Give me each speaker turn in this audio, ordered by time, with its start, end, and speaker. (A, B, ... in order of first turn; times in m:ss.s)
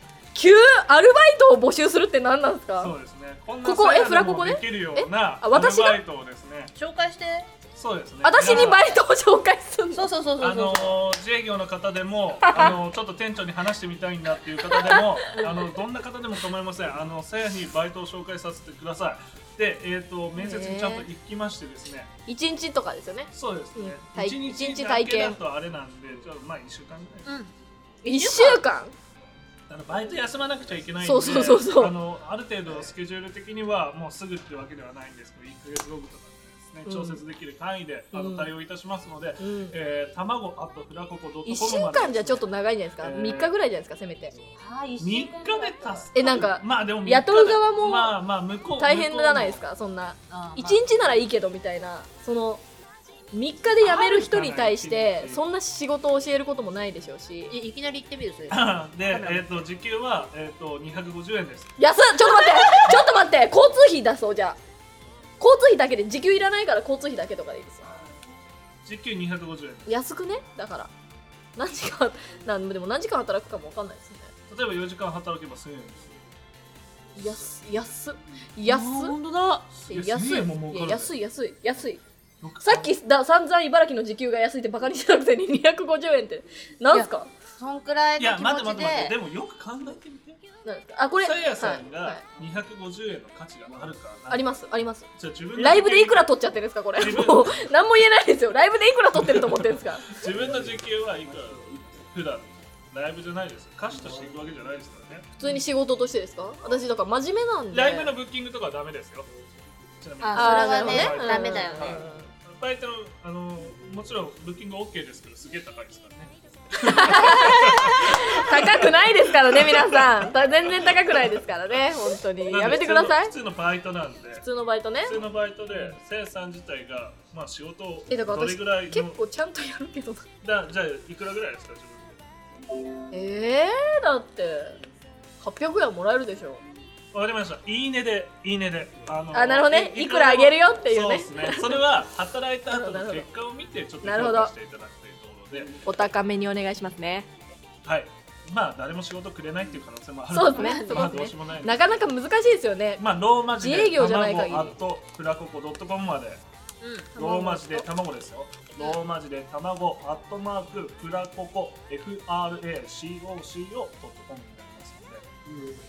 0:00.3-0:02.9 A
0:02.8-0:06.7 B
0:03.6-0:06.0 A
0:06.8-0:07.5 C
0:07.8-0:08.9 B
0:08.2-0:10.1 A
0:09.9-0:11.0 C
0:10.4-0:22.1 B
0:14.9-0:15.4 A
0:20.4-0:21.1 A
0:22.3-0:25.4 A
0:23.3-0:27.3 B
0:27.3-0:27.5 C
0:28.0-0:29.0 A
0:28.1-0:28.6 C
0:29.7-0:42.5 B
0:31.0-0:32.0 A
0:36.9-0:37.2 A
0:38.1-0:38.5 A
0:39.4-0:39.8 A
0:41.4-0:44.4 A
0:43.0-0:43.5 B
0:44.6-0:46.1 C
0:45.0-0:49.6 B
0:46.2-0:48.2 A
0:48.8-0:52.6 A
0:50.3-0:50.9 C
0:53.3-0:57.6 A
0:53.8-0:55.4 B
0:57.5-0:59.6 C
0:58.5-1:01.7 B
1:01.8-1:04.6 A
1:05.4-1:08.0 A
1:08.8-1:09.9 B
1:09.9-1:10.9 A
1:11.6-1:14.3 A
1:14.5-1:16.2 B
1:17.2-1:19.2 A
1:18.7-1:19.7 C
1:19.7-1:21.1 B
1:19.9-1:22.0 A
1:22.4-1:22.9 B
1:22.6-1:27.3 A
1:26.9-1:29.2 C
1:28.2-1:30.4 B
1:30.6-1:32.2 A
1:31.2-1:34.6 B
1:34.3-1:40.2 A
1:35.2-1:36.3 B
1:37.0-1:37.7 B
1:39.2-1:45.4 B
1:45.4-1:48.1 A
1:47.7-1:49.3 B
1:50.0-2:01.4 B
1:50.2-1:52.0 C
1:50.4-1:52.3 A
1:56.8-2:03.4 A
2:02.4-2:04.4 B
2:04.4-2:05.2 A
2:05.0-2:09.2 B
2:08.1-2:10.3 A
2:10.4-2:12.2 B
2:13.1-2:14.8 A
2:15.4-2:16.6 A
2:17.1-2:25.8 B
2:19.3-2:21.8 A
2:22.7-2:23.3 A
2:24.0-2:24.5 A
2:25.8-2:27.3 A
2:27.8-2:32.1 B
2:30.3-2:34.8 A
2:30.6-2:31.2 C
2:33.0-2:36.4 B
2:36.8-2:37.1 C
2:37.1-2:37.9 A
2:37.2-2:45.4 B